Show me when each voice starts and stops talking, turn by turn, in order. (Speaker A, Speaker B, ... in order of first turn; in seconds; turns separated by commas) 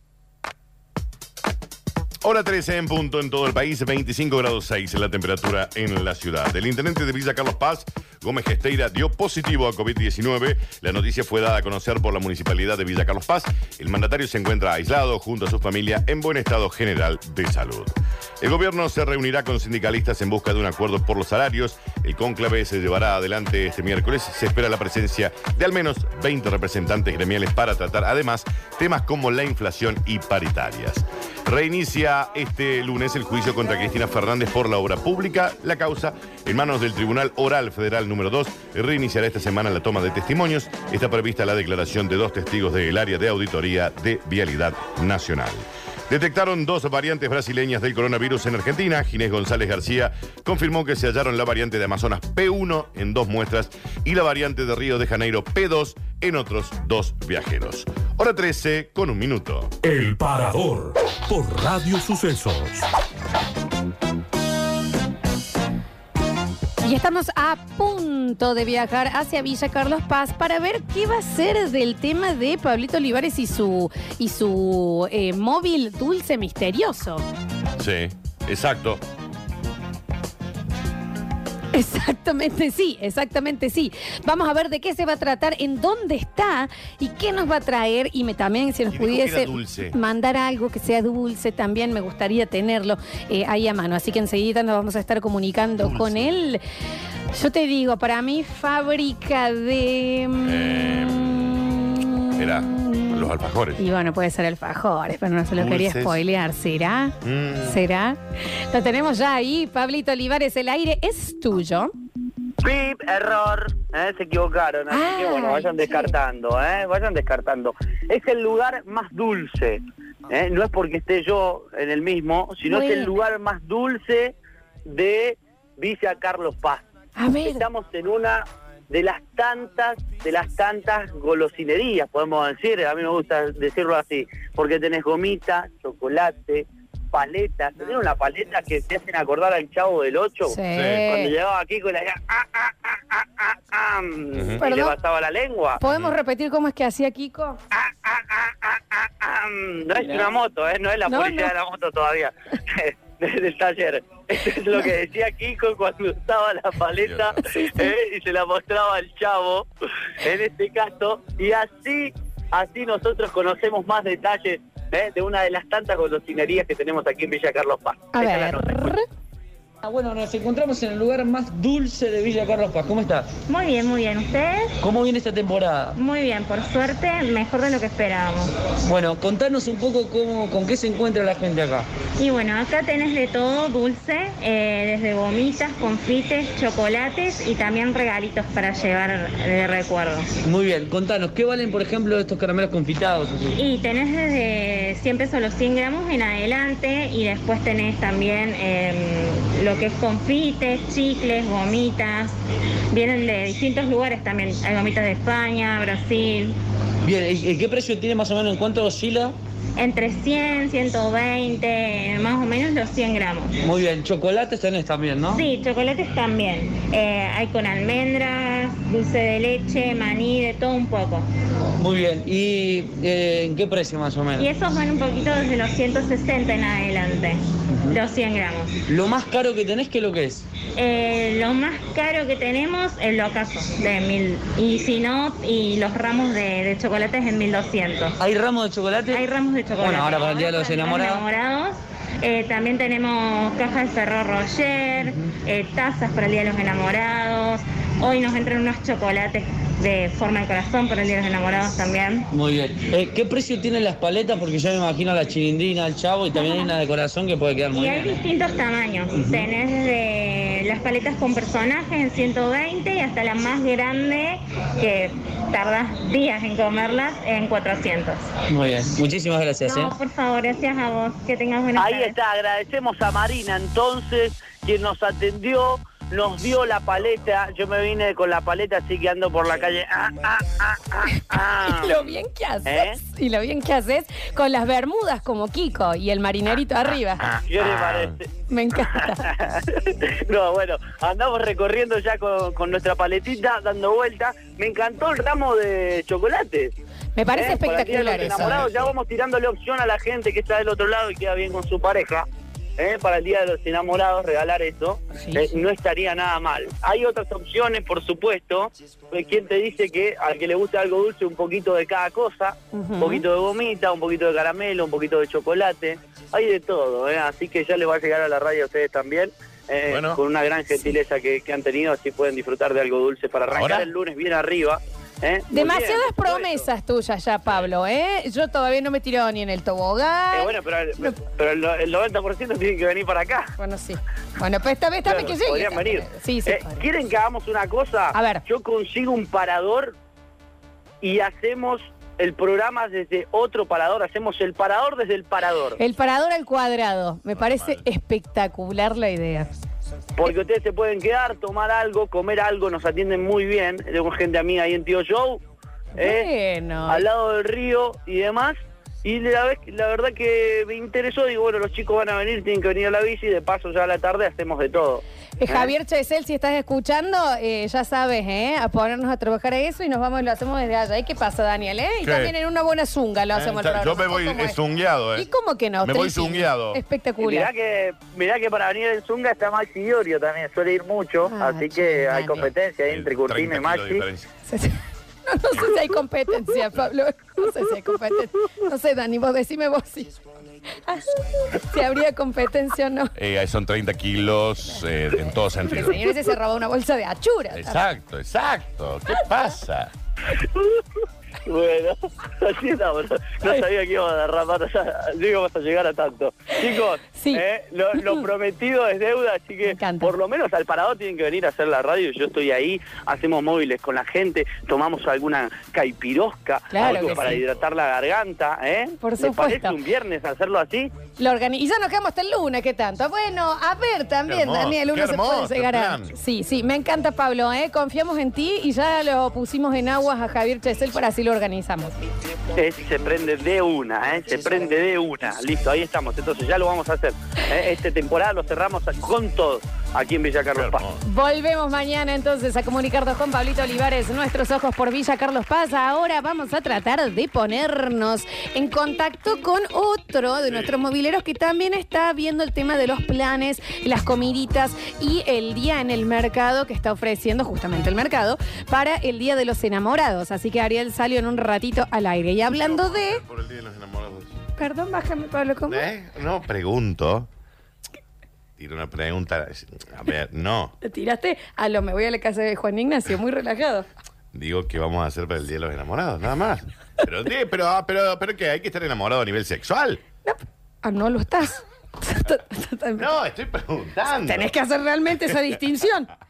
Speaker A: 2.2-59.7, Speaker B: 59.8-62.9, Speaker C: 66.8-77.2, Speaker A: 77.8-79.0, Speaker C: 81.7-96.6, Speaker A: 88.9-90.0, Speaker A: 95.8-96.3, Speaker C: 97.3-103.2, Speaker A: 100.4-101.7, Speaker A: 102.3-103.8, Speaker C: 103.8-107.1, Speaker A: 105.5-106.2, Speaker A: 107.2-107.8, Speaker C: 107.6-108.2, Speaker C: 108.7-111.9, Speaker D: 112.6-124.3, Speaker C: 114.9-116.1, Speaker C: 122.7-123.1, Speaker D: 124.8-126.8, Speaker C: 127.2-127.6, Speaker D: 127.4-145.8, Speaker C: 140.5-141.3, Speaker A: 140.7-141.1, Speaker A: 144.3-144.6, Speaker C: 144.6-144.9, Speaker C: 145.8-147.6, Speaker D: 147.7-159.7, Speaker C: 151.1-151.5, Speaker A: 157.0-157.4, Speaker C: 157.4-157.9, Speaker D: 160.2-169.0, Speaker C: 168.1-169.0, Speaker E: 169.8-173.4, Speaker F: 173.5-174.7, Speaker E: 174.8-175.9, Speaker F: 175.9-178.5, Speaker E: 178.8-181.9, Speaker F: 182.2-190.3, Speaker E: 190.4-193.6, Speaker F: 193.5-202.3, Speaker F: 202.9-206.6, Speaker E: 207.0-209.3, Speaker F: 209.8-213.6, Speaker E: 213.6-215.4, Speaker F: 215.3-221.2, Speaker E: 221.8-224.5, Speaker F: 224.4-228.8, Speaker E: 228.8-230.5, Speaker F: 230.8-238.2, Speaker E: 238.2-239.2, Speaker F: 239.1-252.3, Speaker E: 239.8-241.2, Speaker E: 252.3-258.2, Speaker F: 256.3-256.7, Speaker F: 257.7-268.3, Speaker E: 259.1-259.5, Speaker E: 268.5-269.9, Speaker F: 269.6-272.1, Speaker D: 271.8-282.1, Speaker C: 281.1-287.2, Speaker D: 282.6-283.0, Speaker A: 287.2-288.2, Speaker D: 287.4-288.2, Speaker C: 288.5-289.3, Speaker D: 289.2-296.7, Speaker C: 297.1-298.7, Speaker D: 297.3-302.2, Speaker A: 298.4-298.9, Speaker D: 302.8-326.6, Speaker C: 305.1-305.6, Speaker C: 312.7-313.2, Speaker A: 319.9-320.2, Speaker A: 323.5-323.9, Speaker C: 325.5-331.2, Speaker D: 330.3-333.5, Speaker C: 333.6-336.8, Speaker D: 335.1-339.9, Speaker C: 338.1-338.4, Speaker D: 341.0-345.8, Speaker C: 345.8-349.5, Speaker A: 347.3-347.8, Speaker D: 350.2-355.4, Speaker D: 356.0-356.3, Speaker C: 356.0-357.0, Speaker D: 356.9-365.7, Speaker C: 365.4-374.6, Speaker A: 372.0-372.3, Speaker A: 373.3-375.3, Speaker C: 375.1-377.5, Speaker A: 375.8-376.8, Speaker D: 377.2-384.0, Speaker C: 381.3-382.5, Speaker A: 382.4-384.3, Speaker C: 384.5-390.1, Speaker C: 390.9-393.1, Speaker A: 393.1-396.1, Speaker C: 395.7-397.8, Speaker A: 397.5-399.9, Speaker D: 401.4-420.9, Speaker C: 407.1-407.4, Speaker C: 409.6-410.1, Speaker C: 416.7-417.4, Speaker A: 416.8-417.2, Speaker C: 419.0-419.7, Speaker C: 421.2-431.9, Speaker A: 424.3-426.1, Speaker D: 432.6-440.8, Speaker A: 440.6-441.0, Speaker C: 441.0-463.2, Speaker A: 462.5-464.3, Speaker C: 464.6-465.9, Speaker A: 465.7-467.3, Speaker A: 468.6-470.7, Speaker C: 470.8-473.9, Speaker A: 474.3-480.0, Speaker C: 480.2-483.1, Speaker A: 483.0-484.5, Speaker C: 484.2-486.1